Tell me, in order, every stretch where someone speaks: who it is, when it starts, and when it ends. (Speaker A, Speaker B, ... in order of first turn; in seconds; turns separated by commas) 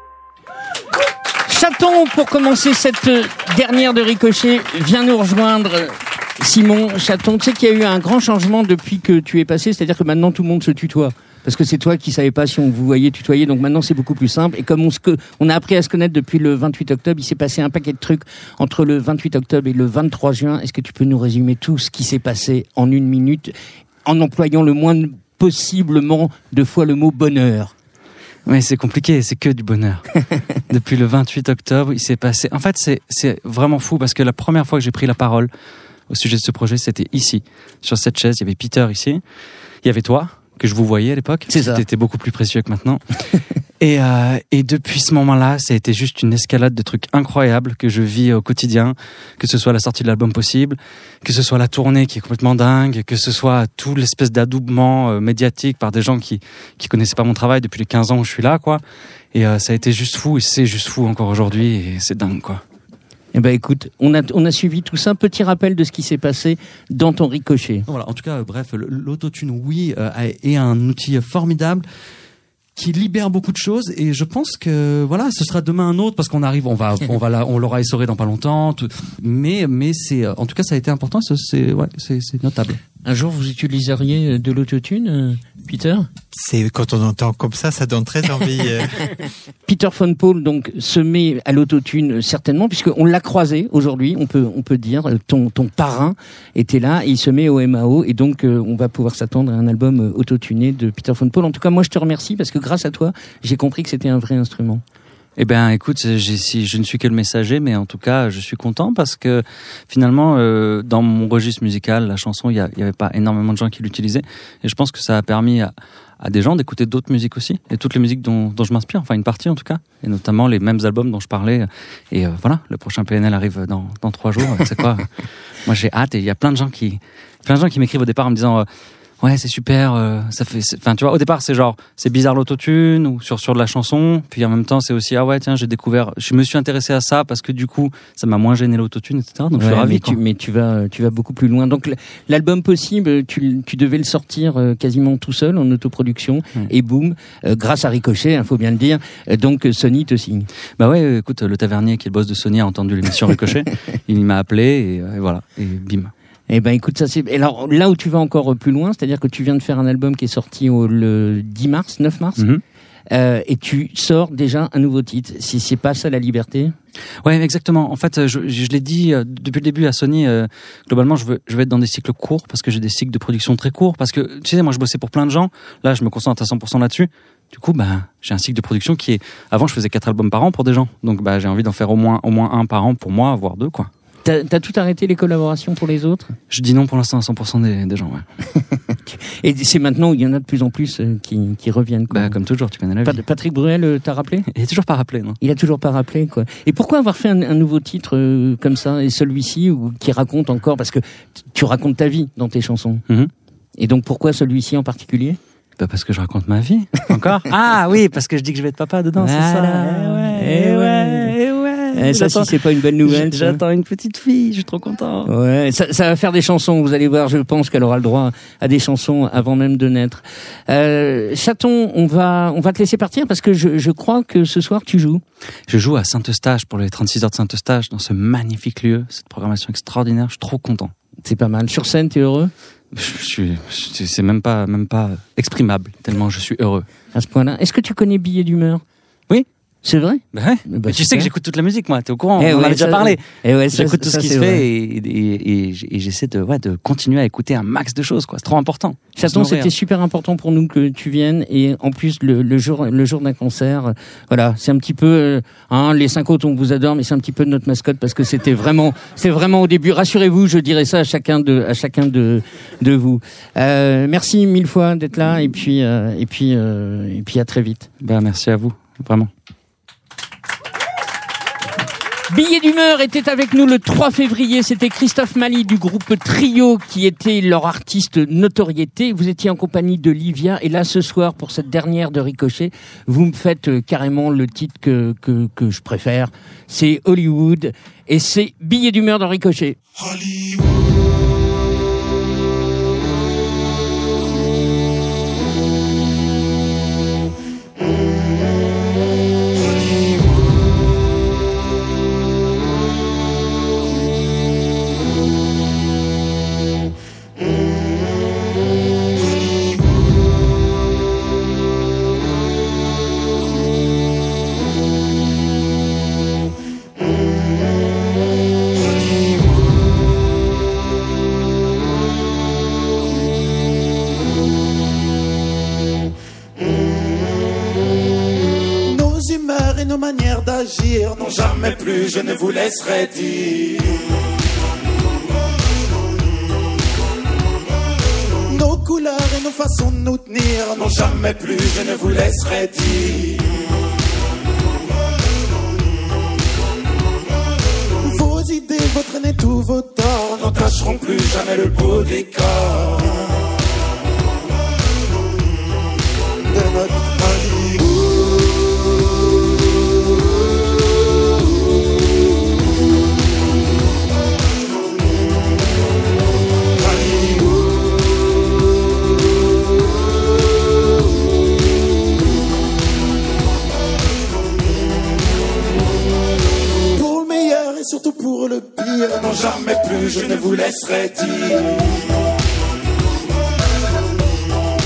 Speaker A: 1.5-27.7, Speaker B: 28.5-30.1, Speaker B: 30.7-35.5, Speaker B: 36.1-39.2, Speaker B: 39.8-43.0, Speaker A: 41.5-41.8, Speaker B: 43.8-58.8, Speaker B: 59.3-62.6, Speaker A: 63.3-67.9, Speaker C: 67.9-71.8, Speaker C: 72.8-82.8, Speaker A: 83.0-86.1, Speaker D: 86.3-89.0, Speaker A: 89.7-104.8, Speaker B: 105.4-125.1, Speaker B: 125.7-128.7, Speaker B: 129.2-140.2, Speaker A: 139.6-150.5, Speaker B: 150.8-156.1, Speaker A: 156.5-162.4, Speaker B: 162.4-162.6, Speaker A: 163.1-166.8, Speaker B: 167.2-183.9, Speaker A: 184.2-186.3, Speaker B: 186.5-188.2, Speaker A: 188.9-192.4, Speaker B: 192.1-193.2, Speaker A: 193.0-194.5, Speaker B: 194.5-195.4, Speaker A: 195.4-203.0, Speaker A: 203.8-205.4, Speaker B: 205.8-212.5, Speaker A: 209.2-211.3, Speaker A: 211.9-213.6, Speaker B: 213.0-215.3, Speaker A: 215.2-225.2, Speaker B: 225.7-230.9, Speaker A: 231.2-232.5, Speaker B: 232.9-236.9, Speaker A: 237.1-238.8, Speaker A: 239.8-241.3, Speaker B: 240.3-244.7, Speaker A: 242.4-244.7, Speaker C: 244.8-246.0, Speaker B: 246.0-249.7, Speaker A: 249.2-267.9, Speaker B: 268.0-269.3, Speaker A: 272.3-289.8, Speaker E: 328.8-334.0, Speaker E: 338.5-343.5, Speaker E: 348.0-353.4, Speaker E: 356.5-357.9, Speaker E: 376.9-382.0